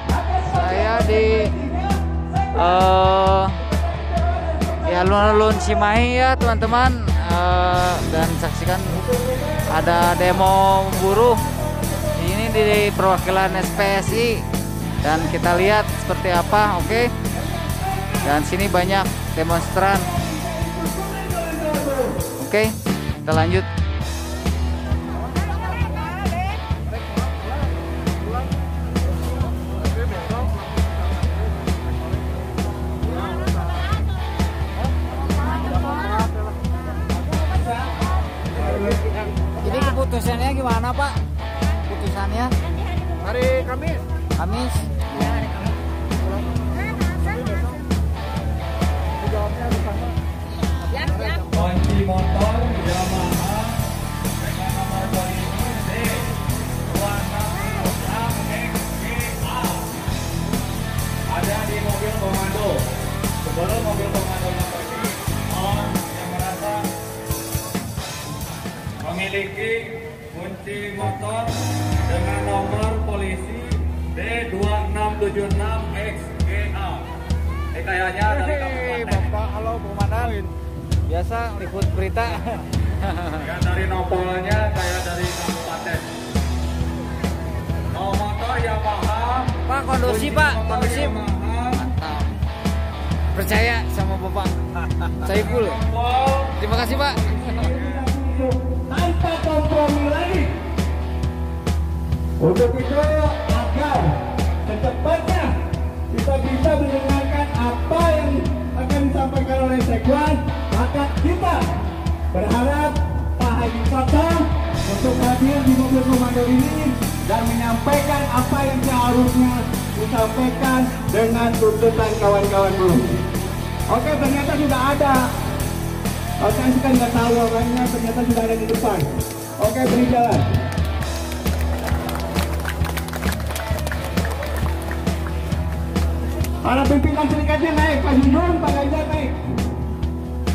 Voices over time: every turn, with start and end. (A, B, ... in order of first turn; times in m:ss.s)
0:00.2-0:00.6 A
0:00.5-0:01.6 B
0:01.5-0:01.9 A
0:02.5-0:03.6 B
0:04.8-0:11.5 B
0:12.1-0:14.5 B
0:15.0-0:17.2 B
0:18.1-0:20.2 B
0:20.5-0:22.2 A
0:22.3-0:23.7 B
0:39.6-0:42.6 B
0:44.4-0:45.5 B
0:51.4-0:53.8 C
0:54.4-0:56.3 C
0:56.8-0:59.9 C
1:01.3-1:02.8 C
1:03.4-1:06.9 C
1:09.0-1:11.5 C
1:12.0-1:17.0 C
1:17.7-1:19.2 C
1:18.5-1:20.5 B
1:21.1-1:23.5 B
1:23.4-1:26.1 C
1:27.9-1:31.8 C
1:29.6-1:31.2 B
1:31.7-1:32.3 B
1:33.3-1:35.8 B
1:35.3-1:36.5 C
1:36.6-1:37.6 B
1:37.3-1:40.5 A
1:42.4-1:51.7 A
1:52.3-2:03.2 A
2:03.9-2:05.3 A
2:06.4-2:10.4 A
2:16.6-2:19.4 A